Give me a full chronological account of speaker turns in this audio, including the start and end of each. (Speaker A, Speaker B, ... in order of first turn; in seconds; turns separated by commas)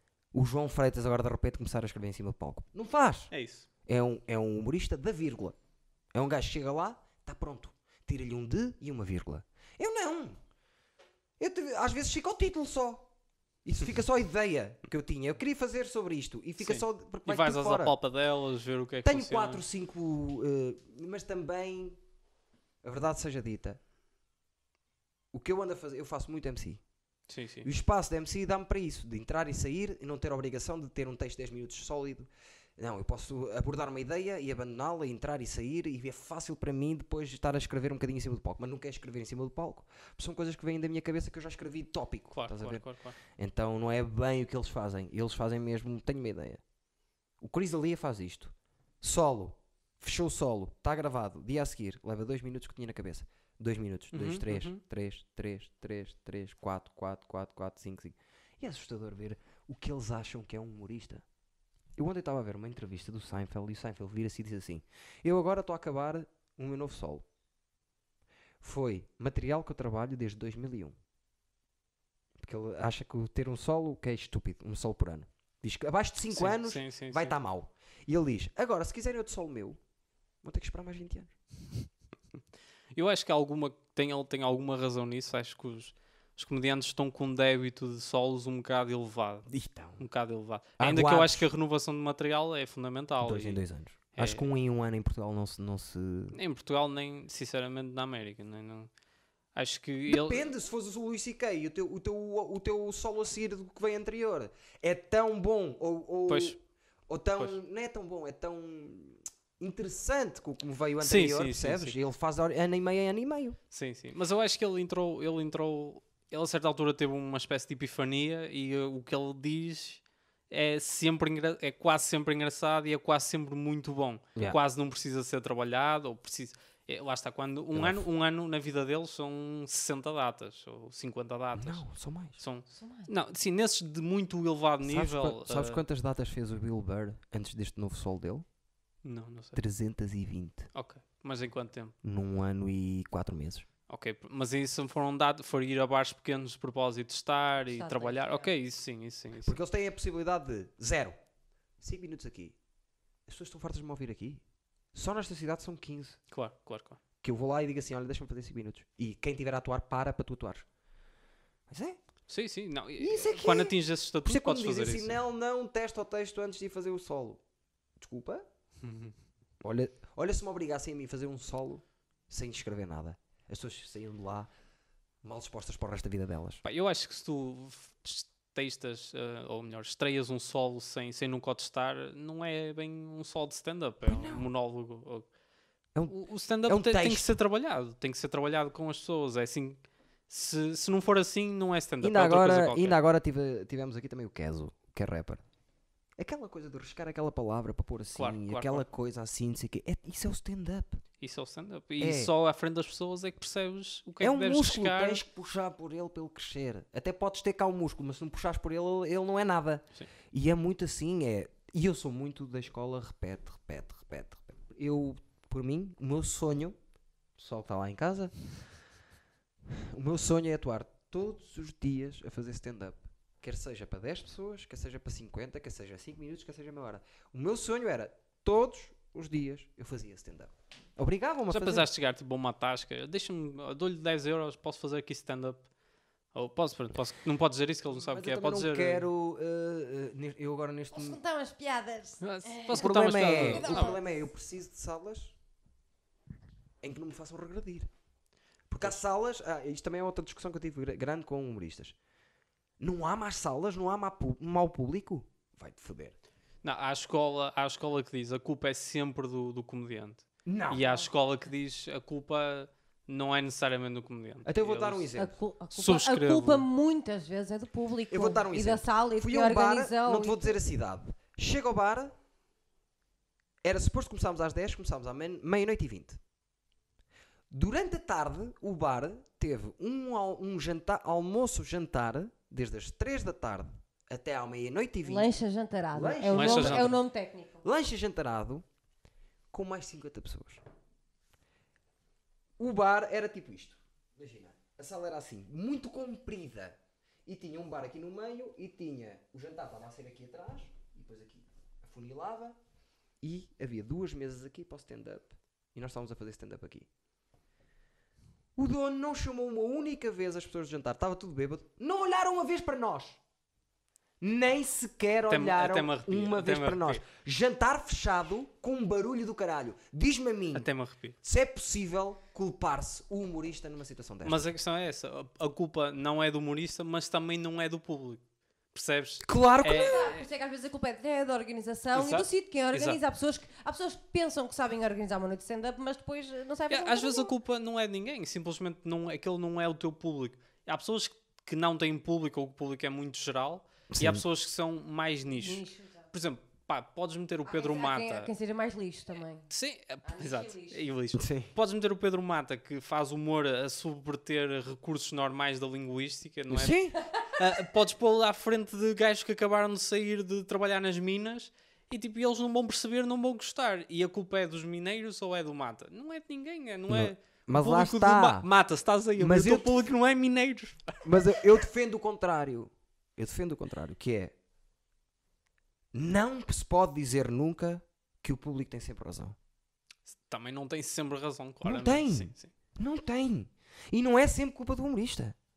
Speaker A: 0.3-3.3, Speaker B: 3.3-3.7, Speaker A: 3.9-5.5, Speaker A: 6.1-10.4, Speaker A: 11.4-13.1, Speaker A: 13.6-17.9, Speaker B: 16.6-19.6, Speaker A: 19.0-22.0, Speaker A: 22.8-23.8, Speaker A: 25.3-26.8, Speaker B: 27.3-27.7, Speaker A: 27.6-46.6, Speaker B: 42.3-43.2, Speaker A: 47.4-61.2, Speaker B: 54.1-54.8, Speaker A: 62.0-67.2, Speaker A: 68.6-71.0, Speaker A: 72.4-79.8, Speaker B: 76.3-77.3, Speaker A: 80.4-81.3, Speaker B: 82.9-93.6, Speaker A: 89.5-90.0, Speaker A: 90.8-91.5, Speaker A: 93.2-96.4, Speaker B: 94.1-94.4, Speaker B: 96.3-98.9, Speaker B: 99.5-100.5, Speaker A: 100.1-106.6, Speaker B: 106.3-106.6, Speaker A: 107.1-113.6, Speaker B: 111.0-112.0, Speaker B: 113.7-131.8, Speaker A: 127.7-128.0, Speaker A: 131.5-132.4, Speaker B: 132.4-135.8, Speaker C: 132.7-133.1, Speaker A: 134.8-138.4, Speaker B: 139.0-139.6, Speaker A: 139.6-140.7, Speaker B: 140.7-141.9, Speaker A: 142.0-143.7, Speaker B: 143.9-149.6, Speaker C: 147.7-148.5, Speaker A: 149.4-151.2, Speaker A: 151.8-152.6, Speaker A: 153.3-154.4, Speaker A: 154.9-156.2, Speaker B: 156.3-157.0, Speaker A: 157.2-160.7, Speaker A: 161.7-162.0, Speaker B: 162.3-165.2, Speaker A: 163.0-167.4, Speaker A: 168.0-168.4, Speaker B: 168.8-169.1, Speaker A: 169.6-174.5, Speaker A: 175.2-176.6, Speaker B: 176.6-185.3, Speaker A: 184.0-184.5, Speaker A: 185.9-187.3, Speaker B: 186.1-193.0, Speaker A: 192.0-195.4, Speaker A: 196.2-201.0, Speaker B: 198.1-198.8, Speaker B: 201.2-205.2, Speaker A: 202.0-202.3, Speaker A: 204.2-216.8, Speaker A: 217.4-218.3, Speaker A: 219.7-231.9, Speaker B: 231.5-235.7, Speaker B: 236.3-239.1, Speaker A: 237.9-241.2, Speaker C: 240.9-244.1, Speaker B: 242.2-244.0, Speaker A: 242.7-245.3, Speaker A: 246.8-247.9, Speaker A: 248.7-251.9, Speaker A: 252.8-256.1, Speaker B: 256.6-265.1, Speaker A: 260.4-260.8, Speaker A: 264.4-265.3, Speaker C: 265.1-270.6, Speaker B: 265.7-266.7, Speaker A: 268.1-272.1, Speaker A: 273.6-276.2, Speaker A: 277.5-285.3, Speaker C: 285.0-287.6, Speaker A: 285.9-287.0, Speaker B: 286.3-287.0, Speaker A: 287.6-288.6, Speaker A: 289.5-290.6, Speaker A: 292.6-302.6, Speaker A: 303.2-306.9, Speaker A: 308.6-313.2, Speaker A: 314.2-320.7, Speaker B: 315.3-317.0, Speaker B: 320.5-321.1, Speaker A: 321.2-324.5, Speaker B: 324.2-328.2, Speaker B: 328.7-330.2, Speaker A: 329.2-330.1, Speaker C: 329.7-337.3, Speaker B: 331.9-333.0, Speaker B: 336.7-348.3, Speaker A: 343.9-344.2, Speaker C: 345.3-346.1, Speaker C: 347.4-349.5, Speaker B: 349.5-371.3, Speaker C: 350.0-350.8, Speaker A: 351.1-351.5, Speaker A: 356.5-357.0, Speaker A: 366.9-368.5, Speaker A: 369.2-369.8, Speaker A: 371.0-374.3, Speaker A: 375.9-379.4, Speaker B: 380.1-382.5, Speaker A: 381.6-385.4